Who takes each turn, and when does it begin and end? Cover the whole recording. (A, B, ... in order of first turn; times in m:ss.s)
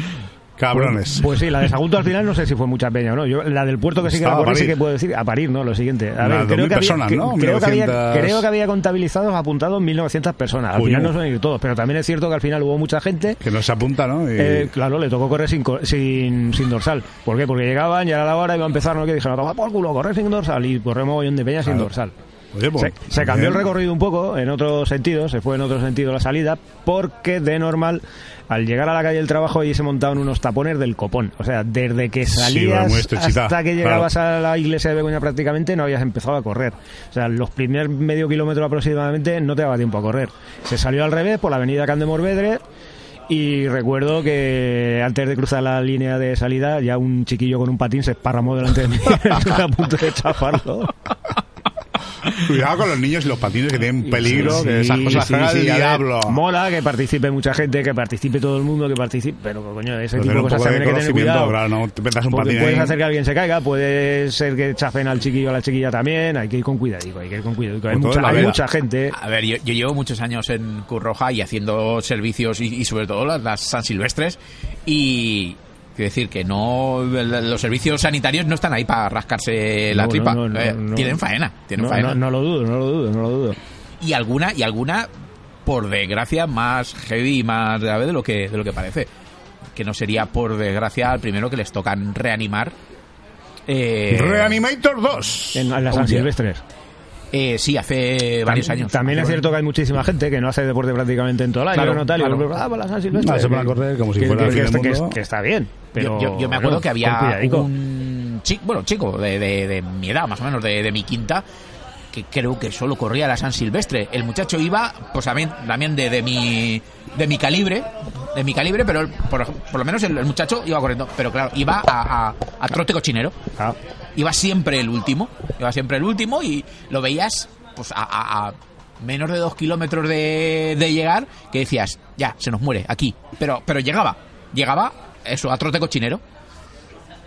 0:00.6-0:01.4 A
0:00.7-0:13.4 B
0:04.0-0:04.8 A
0:06.2-0:08.5 A
0:10.7-0:11.1 A
0:13.4-0:14.7 A
0:14.4-0:22.1 B
0:22.5-0:23.7 A
0:22.8-0:42.6 B
0:32.3-0:34.1 A
0:43.3-0:50.9 B
0:52.3-0:56.4 A
0:54.0-1:01.6 B
1:00.2-1:03.0 A
1:02.3-1:09.1 B
1:07.9-1:08.6 A
1:09.1-1:22.2 C
1:19.9-1:21.2 B
1:21.8-1:23.6 B
1:24.0-1:25.1 C
1:25.6-1:29.1 C
1:29.7-1:32.7 C
1:33.7-1:34.6 C
1:34.1-1:35.7 A
1:35.5-1:36.6 B
1:35.9-1:36.3 C
1:37.3-1:39.5 C
1:38.4-1:47.6 B
1:41.7-1:42.4 C
1:43.1-1:45.2 A
1:46.0-1:51.4 C
1:52.1-2:03.4 C
2:04.2-2:16.2 C